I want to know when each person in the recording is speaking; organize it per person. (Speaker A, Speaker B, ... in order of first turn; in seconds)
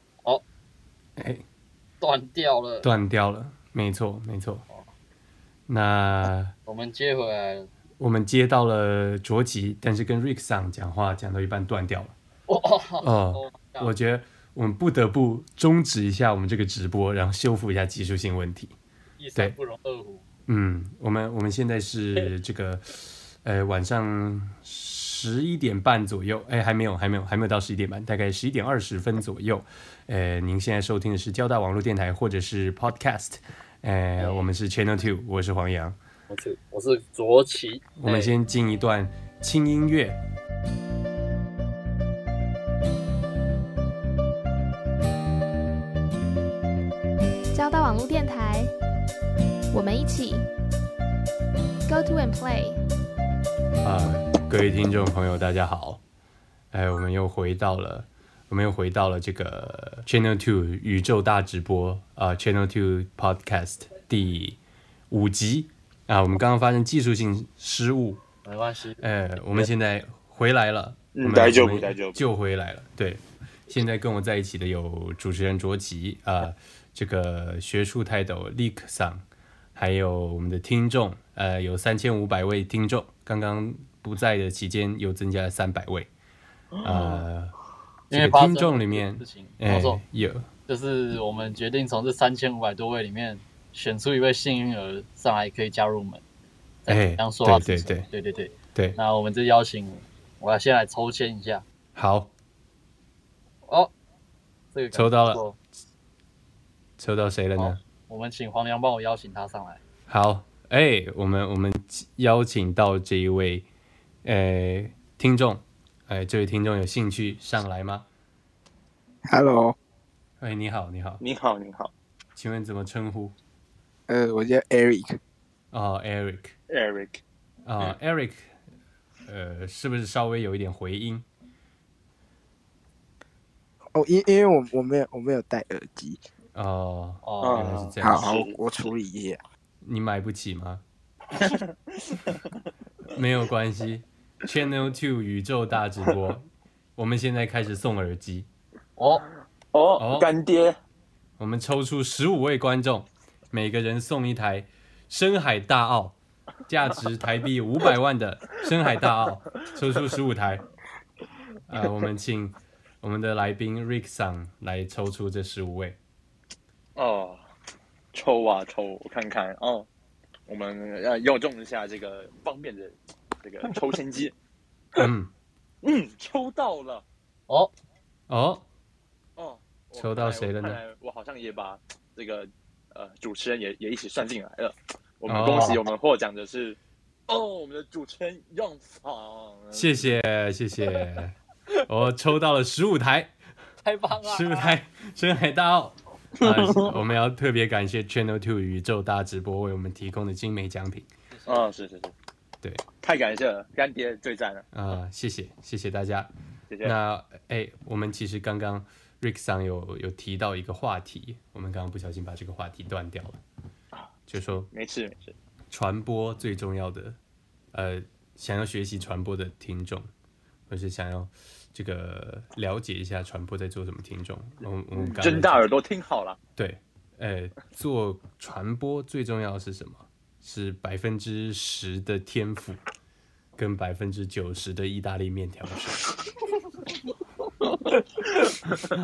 Speaker A: 1.2-1.4, 2.8-4.7, 5.7-6.5, 8.0-12.2, 13.0-18.8, 20.5-36.0, 38.0-40.2, 53.8-56.0, 56.7-64.6, 65.1-68.2, 69.0-86.1, 86.8-87.5, 88.1-90.5, 96.9-98.1, 102.0-102.3, 104.9-105.4, 107.0-107.8, 110.1-113.7, 114.2-118.1, 120.4-121.2, 122.4-123.3, 125.7-126.5, 127.7-128.5, 129.3-131.2, 136.6-138.3, 139.8-140.8, 143.1-148.5, 150.0-150.3, 151.4-156.2, 156.7-160.7, 161.7-166.0, 174.9-175.3, 178.3-178.7, 179.9-180.8, 185.3-185.9, 189.7-191.4, 191.9-193.3, 194.2-201.1, 204.7-206.3, 206.8-213.4, 214.3-214.7, 215.7-217.2, 217.7-220.1, 220.7-225.7, 226.6-232.8, 233.6-236.0
Speaker B: 2.0-2.9, 6.7-7.7, 12.5-13.9, 19.2-20.3, 36.3-38.4, 68.4-69.0, 88.1-90.0, 90.7-96.2, 96.8-101.7, 103.7-103.9, 104.7-105.6, 107.6-109.8, 137.2-137.7, 149.0-149.3, 177.5-177.7, 193.8-194.8, 201.3-201.6
Speaker C: 47.5-48.7, 49.7-50.5, 51.9-52.8
Speaker D: 71.1-72.2, 86.7-87.3, 121.2-121.9, 126.7-127.2, 137.4-138.9, 141.3-142.5, 149.7-150.8, 167.0-167.4, 168.1-169.9, 170.5-174.3, 175.8-177.1, 179.4-190.2, 196.4-197.0, 201.5-202.1, 203.0-204.7, 206.7-207.0, 214.7-215.4, 224.9-226.4
Speaker E: 119.3-119.8, 124.1-125.2, 133.9-136.2, 138.0-139.4